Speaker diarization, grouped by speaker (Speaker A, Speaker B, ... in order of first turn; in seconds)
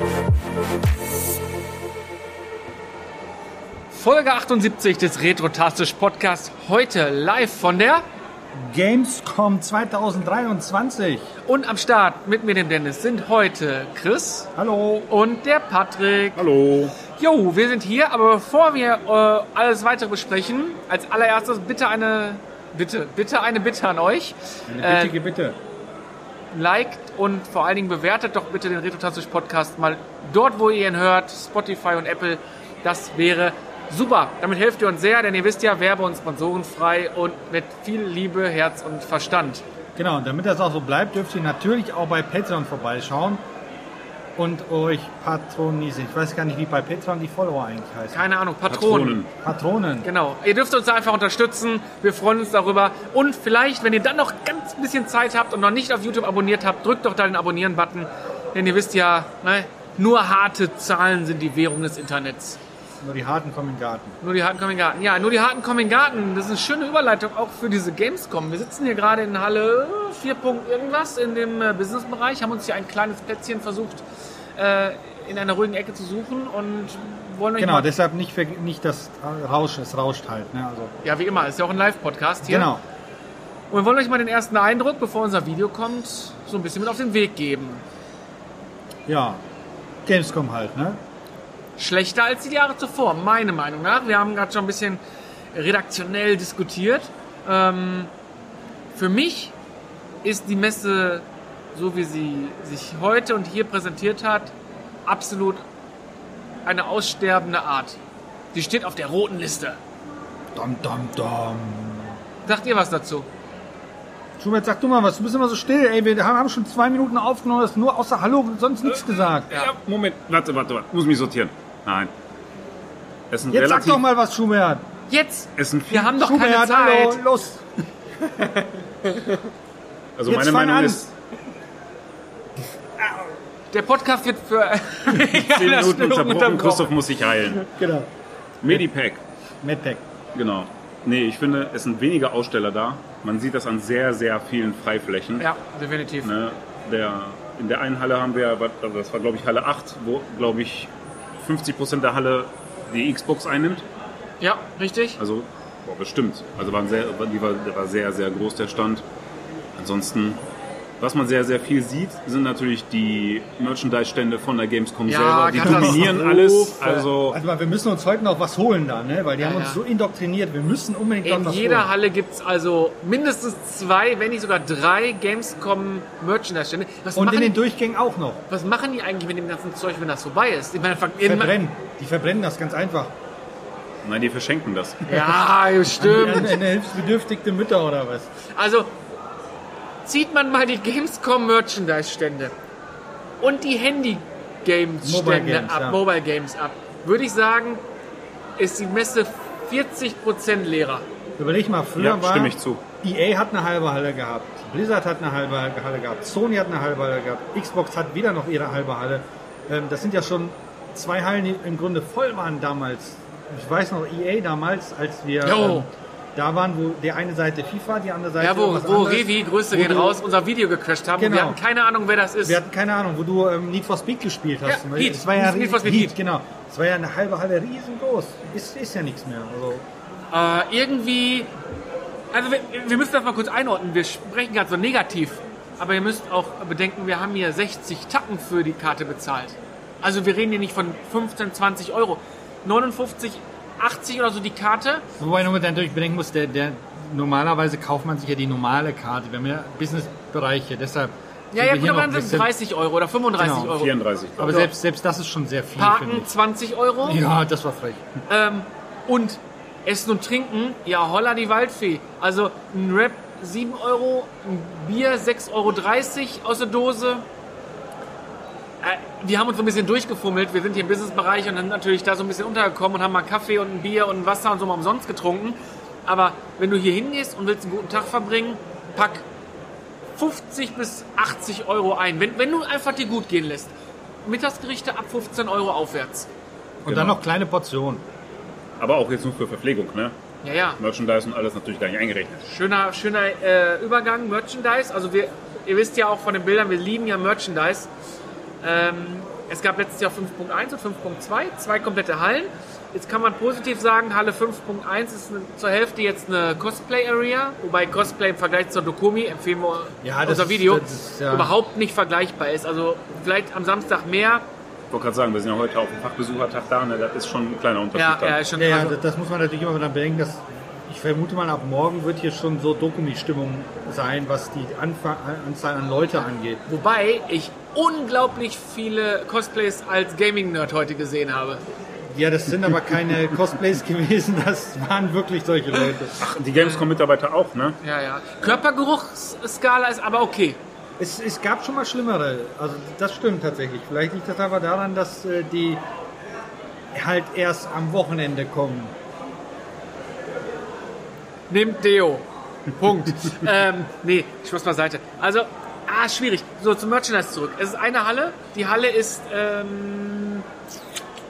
Speaker A: 3.9-8.0, 11.5-14.5, 15.1-16.4, 17.1-25.2, 26.5-39.6, 48.1-49.2, 50.0-62.6, 64.2-74.0, 74.6-77.9, 81.0-82.7, 83.7-87.8, 91.8-95.0, 95.5-98.1, 99.0-99.5, 100.2-104.5, 105.1-105.6, 106.7-108.0, 108.5-109.8, 112.5-113.3, 125.1-127.2, 133.7-136.9, 145.4-146.3, 154.4-155.2, 165.1-167.1, 169.4-169.8, 171.2-177.6, 178.5-181.6, 185.1-186.6, 188.5-188.9, 190.1-192.6, 193.4-197.8, 198.6-201.1, 215.4-215.9, 218.4-222.6, 224.7-226.2, 230.3-231.5, 232.3-245.1, 251.5-254.7, 255.8-257.2, 258.3-267.3, 268.8-279.3, 280.2-283.7, 284.2-286.3, 290.4-290.8, 292.4-297.9, 298.6-314.4, 317.9-319.0, 326.7-331.6, 337.8-340.6, 351.5-360.5
Speaker B: 8.5-11.3, 14.6-15.1, 24.7-25.6, 40.0-43.4, 44.4-48.3, 49.4-50.1, 63.0-64.2, 77.6-81.0, 82.5-82.8, 89.1-89.4, 90.0-91.0, 110.5-112.2, 114.4-119.5, 123.5-124.9, 126.0-127.7, 130.3-131.1, 133.0-133.3, 137.6-138.1, 139.6-140.0, 165.6-166.2, 167.3-171.9, 177.2-178.4, 181.2-183.2, 186.0-188.3, 195.0-196.0, 201.4-220.2, 221.2-221.6, 222.4-229.8, 245.2-252.5, 253.4-253.8, 254.4-256.3, 257.0-258.1, 286.9-288.0, 310.0-311.5, 318.6-326.6, 332.1-336.2, 341.0-345.8, 346.9-348.9
Speaker C: 16.4-17.0, 48.7-49.3, 119.5-122.1, 123.3-124.0, 125.6-126.1, 130.2-131.1, 135.1-137.7, 138.6-139.2, 140.3-145.5, 146.2-153.8, 155.2-159.0, 159.8-160.4, 161.0-167.4, 184.0-185.3, 202.0-202.8, 253.7-254.6, 286.9-287.2, 288.8-290.1, 290.8-292.4, 314.9-318.4, 336.2-337.8